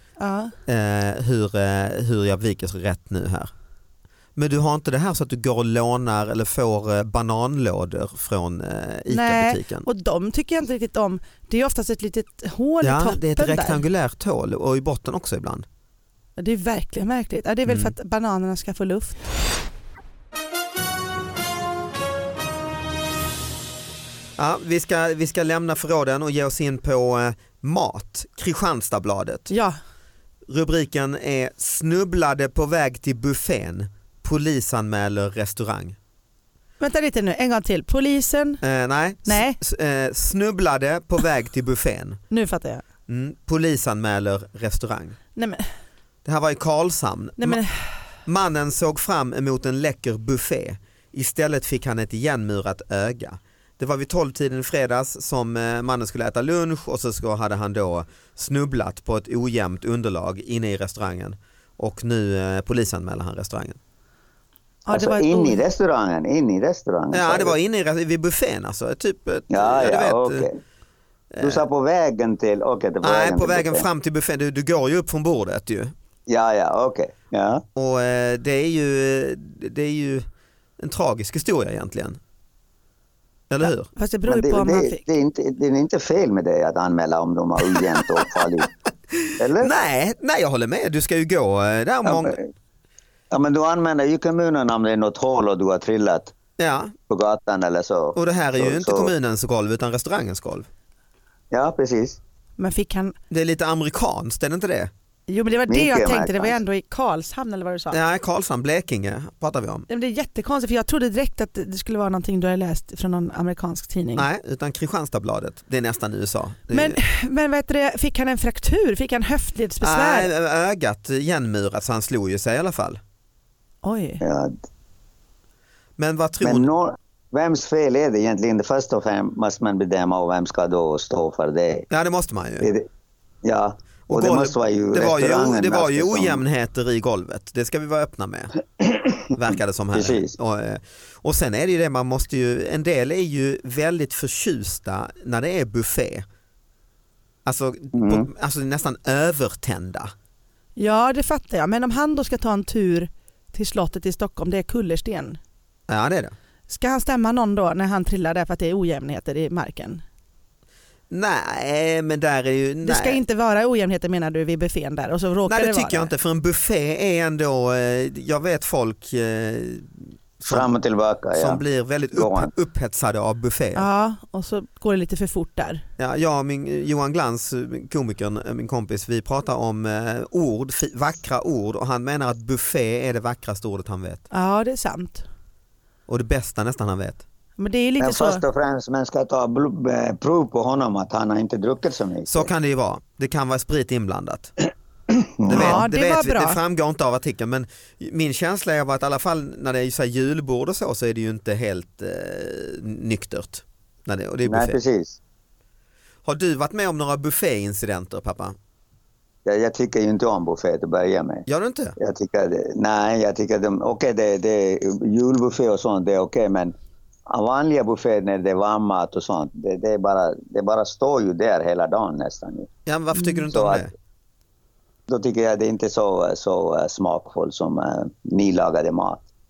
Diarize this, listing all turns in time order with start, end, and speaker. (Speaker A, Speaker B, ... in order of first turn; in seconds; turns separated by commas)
Speaker A: 0.2-0.5, Speaker B: 0.7-3.5, Speaker B: 4.3-9.8, Speaker A: 9.1-13.8, Speaker B: 12.8-15.6, Speaker A: 16.4-19.2, Speaker B: 17.6-17.9, Speaker B: 24.4-29.5, Speaker A: 29.5-29.8, Speaker B: 30.5-36.0, Speaker A: 36.8-38.6, Speaker B: 38.6-42.2, Speaker A: 39.2-39.6, Speaker A: 42.3-42.8, Speaker B: 43.1-45.2, Speaker A: 45.3-45.6, Speaker B: 46.2-47.6, Speaker A: 47.4-47.9, Speaker B: 48.2-63.8, Speaker A: 64.8-65.6, Speaker C: 64.9-67.6, Speaker B: 67.1-70.5, Speaker C: 69.5-70.5, Speaker B: 71.3-71.6, Speaker C: 71.4-73.8, Speaker B: 73.0-75.9, Speaker C: 76.3-77.6, Speaker B: 77.7-80.2, Speaker B: 80.8-82.2, Speaker B: 83.5-83.9, Speaker A: 83.6-85.0, Speaker C: 84.2-88.7, Speaker B: 87.7-88.4, Speaker B: 89.1-92.4, Speaker C: 89.4-89.7, Speaker C: 92.0-92.5, Speaker C: 93.3-96.3, Speaker B: 96.6-96.9, Speaker C: 97.1-99.1, Speaker B: 98.1-100.7, Speaker C: 101.5-102.2, Speaker A: 102.6-103.1, Speaker B: 103.3-104.9, Speaker A: 105.3-108.0, Speaker C: 105.7-106.6, Speaker B: 107.9-109.9, Speaker A: 109.9-114.2, Speaker B: 114.2-117.0, Speaker A: 116.7-120.3, Speaker B: 119.8-123.0, Speaker A: 123.8-124.2, Speaker C: 124.2-124.6, Speaker B: 126.0-126.7, Speaker C: 126.4-131.9, Speaker B: 131.9-132.7, Speaker C: 132.6-132.9, Speaker C: 133.4-136.4, Speaker B: 134.1-138.5, Speaker C: 138.8-139.2, Speaker B: 139.3-146.2, Speaker C: 139.9-140.4, Speaker B: 147.4-150.1, Speaker C: 147.9-148.3, Speaker A: 150.8-155.4, Speaker B: 155.9-156.3, Speaker A: 156.7-160.0, Speaker B: 161.1-163.2, Speaker A: 162.8-166.1, Speaker B: 165.4-170.7, Speaker C: 170.4-172.5, Speaker B: 171.3-173.9, Speaker A: 173.7-175.8, Speaker B: 176.0-184.2, Speaker A: 184.3-185.2, Speaker B: 186.1-187.2, Speaker A: 187.6-188.4, Speaker C: 188.0-192.5, Speaker B: 192.3-194.5, Speaker C: 195.4-195.9, Speaker B: 195.5-204.8, Speaker A: 195.5-196.6, Speaker C: 204.4-205.2, Speaker B: 206.2-208.6, Speaker C: 209.4-211.5, Speaker B: 211.5-211.9, Speaker C: 212.0-216.7, Speaker C: 217.3-222.7, Speaker B: 222.8-223.9, Speaker A: 223.1-223.4, Speaker C: 223.5-223.9, Speaker C: 225.1-229.2